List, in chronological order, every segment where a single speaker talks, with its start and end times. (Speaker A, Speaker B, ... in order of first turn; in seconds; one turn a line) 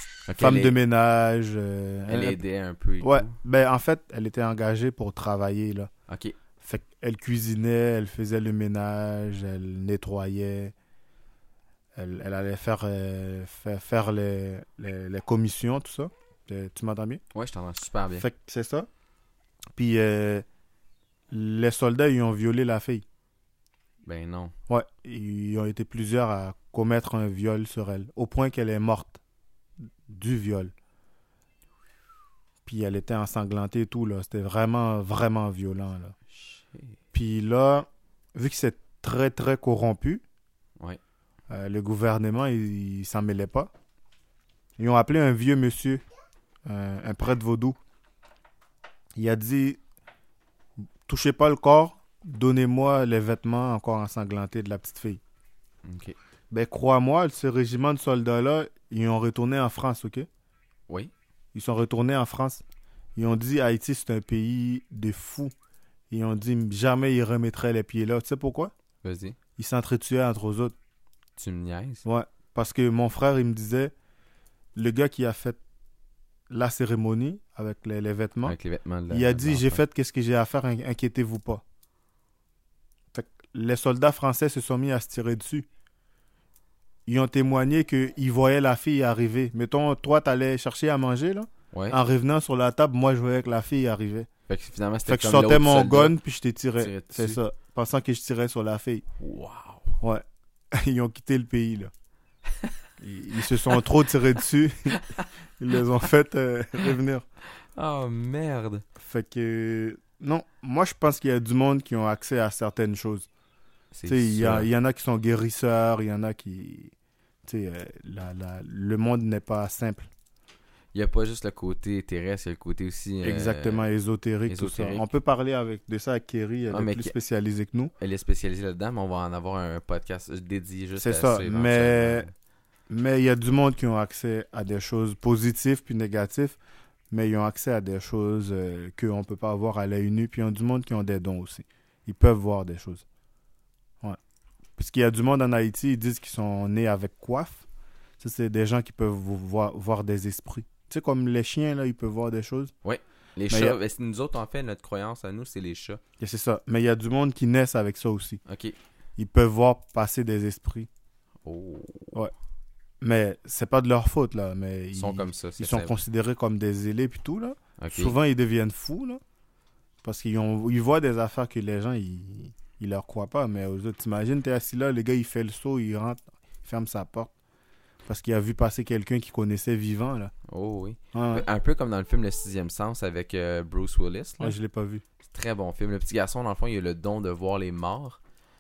Speaker A: 0.3-0.8
Speaker B: 0.4-2.4
Speaker A: 2.1-3.4
Speaker B: 3.0-5.9
Speaker A: 6.1-6.4
Speaker B: 6.6-10.7
Speaker B: 12.0-17.2
Speaker A: 17.3-18.3
Speaker B: 18.2-18.9
Speaker B: 19.7-20.4
Speaker B: 21.3-23.1
Speaker A: 24.0-24.6
Speaker B: 24.7-29.2
Speaker B: 30.1-30.7
Speaker B: 32.6-36.1
Speaker A: 36.3-37.0
Speaker B: 37.1-40.2
Speaker B: 41.5-43.7
Speaker B: 44.8-46.0
Speaker B: 46.7-47.8
Speaker B: 49.2-49.8
Speaker B: 51.1-55.2
Speaker A: 55.9-56.2
Speaker B: 56.5-60.3
Speaker B: 61.5-62.6
Speaker B: 63.2-65.5
Speaker B: 66.1-68.7
Speaker A: 69.0-69.4
Speaker B: 69.6-70.8
Speaker A: 71.4-72.0
Speaker B: 72.0-73.9
Speaker B: 74.8-75.6
Speaker B: 76.5-78.6
Speaker A: 78.4-79.8
Speaker B: 79.1-81.6
Speaker B: 83.1-85.7
Speaker B: 87.1-94.3
Speaker A: 91.7-92.0
Speaker A: 94.5-96.2
Speaker B: 95.0-99.0
Speaker A: 96.8-97.4
Speaker A: 99.2-100.0
Speaker B: 100.0-101.9
Speaker B: 103.0-105.0
Speaker A: 104.9-105.3
Speaker B: 105.6-107.2
Speaker A: 107.8-108.8
Speaker B: 109.0-113.3
Speaker A: 113.9-114.7
Speaker B: 114.1-116.9
Speaker B: 117.5-120.1
Speaker A: 120.9-123.8
Speaker B: 123.2-127.9
Speaker A: 124.5-125.1
Speaker A: 126.7-127.1
Speaker A: 128.0-132.3
Speaker B: 131.0-132.3
Speaker B: 132.9-136.6
Speaker B: 137.1-143.0
Speaker B: 144.8-147.7
Speaker B: 148.2-152.7
Speaker A: 152.8-156.0
Speaker B: 153.5-153.8
Speaker B: 156.2-158.4
Speaker A: 158.5-158.8
Speaker B: 159.2-160.9
Speaker A: 161.4-162.2
Speaker B: 163.0-169.2
Speaker A: 164.9-166.0
Speaker A: 167.8-168.2
Speaker B: 170.0-177.3
Speaker B: 178.1-180.3
Speaker A: 180.5-184.6
Speaker B: 181.1-181.5
Speaker B: 184.4-185.0
Speaker A: 185.3-188.2